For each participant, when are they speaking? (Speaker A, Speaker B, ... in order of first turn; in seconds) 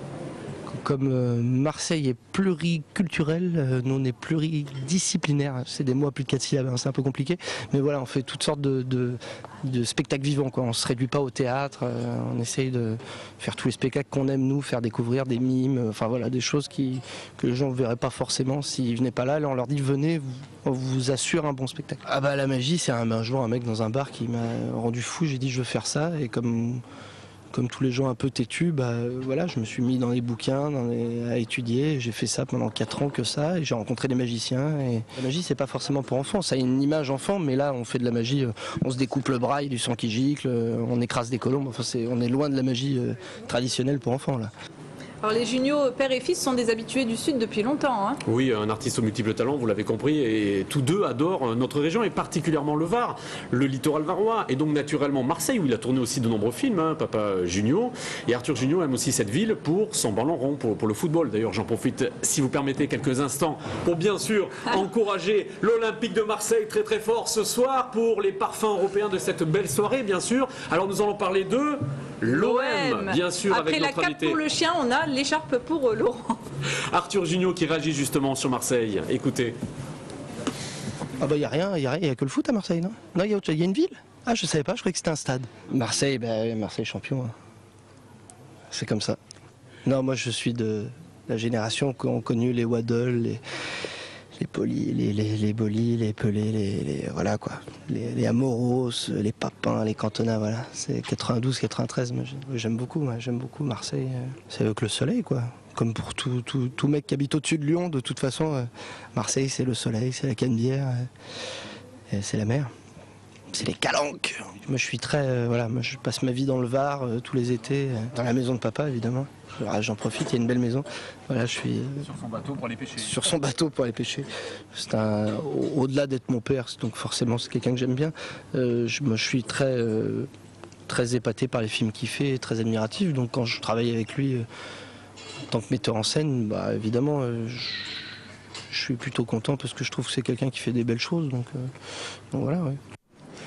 Speaker A: 0.7-26.8, 27.5-44.5, 81.2-87.3, 88.7-89.2, 89.8-93.4, 94.4-111.1, 112.1-112.7, 113.5-122.1, 123.0-130.3, 130.9-134.4, 135.5-137.9, 138.7-141.7, 142.3-142.8
Speaker B: 45.2-48.2, 72.3-76.4
Speaker C: 48.2-74.4, 76.9-79.5, 122.1-123.1